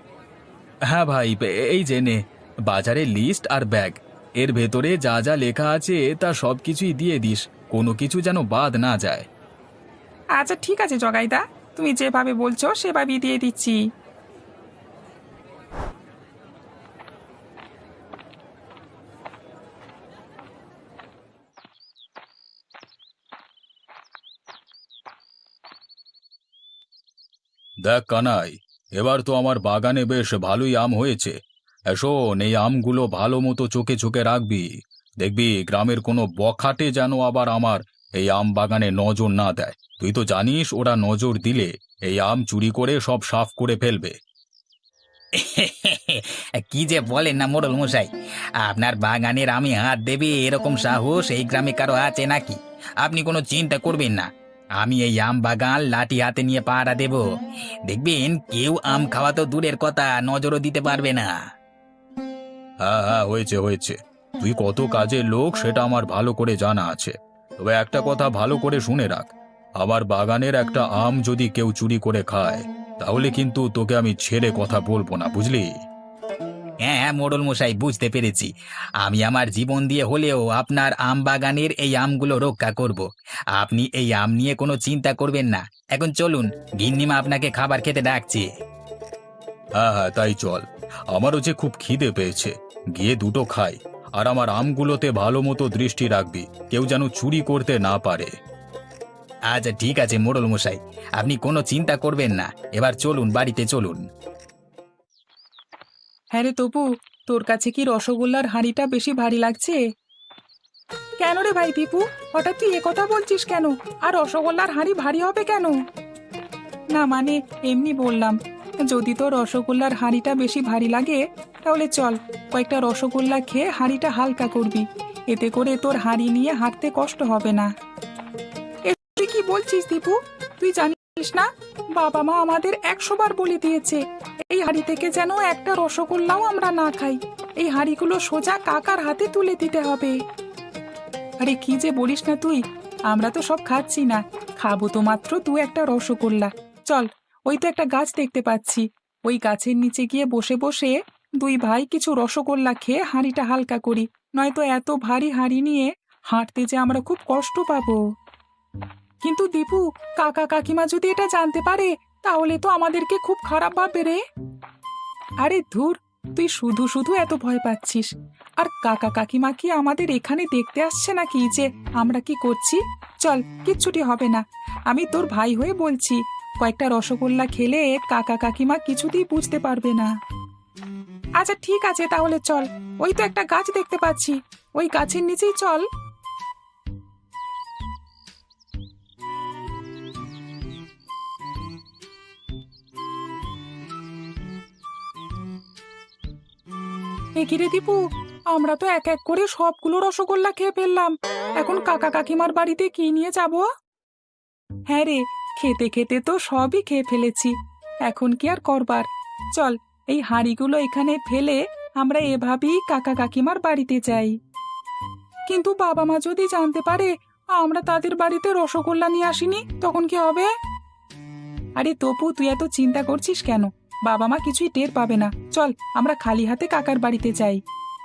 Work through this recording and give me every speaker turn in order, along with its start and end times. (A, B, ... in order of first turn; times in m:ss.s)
0:00.9-0:09.2 A
0:10.4-0:13.8 B
0:27.8-0:31.4 A
0:31.9-0:34.7 A
0:35.2-0:44.1 A
0:45.4-0:48.1 C
0:48.6-0:57.2 C
0:57.9-1:01.3 C
1:02.8-1:15.7 A
1:16.8-1:18.5 C
1:19.0-1:28.5 C
1:29.8-1:38.3 A
1:39.5-1:44.0 C
1:46.3-1:49.8 B
1:51.2-1:55.8 B
1:56.9-2:07.7 B
2:08.8-2:20.2 B
2:21.4-2:38.0 B
2:39.2-2:44.2 B
2:45.4-2:48.1 B
2:48.6-3:00.1 B
3:01.4-3:05.8 B
3:17.4-3:23.6 B
3:24.9-3:27.5 B
3:28.1-3:34.4 B
3:35.5-3:40.5 B
3:41.8-3:47.6 B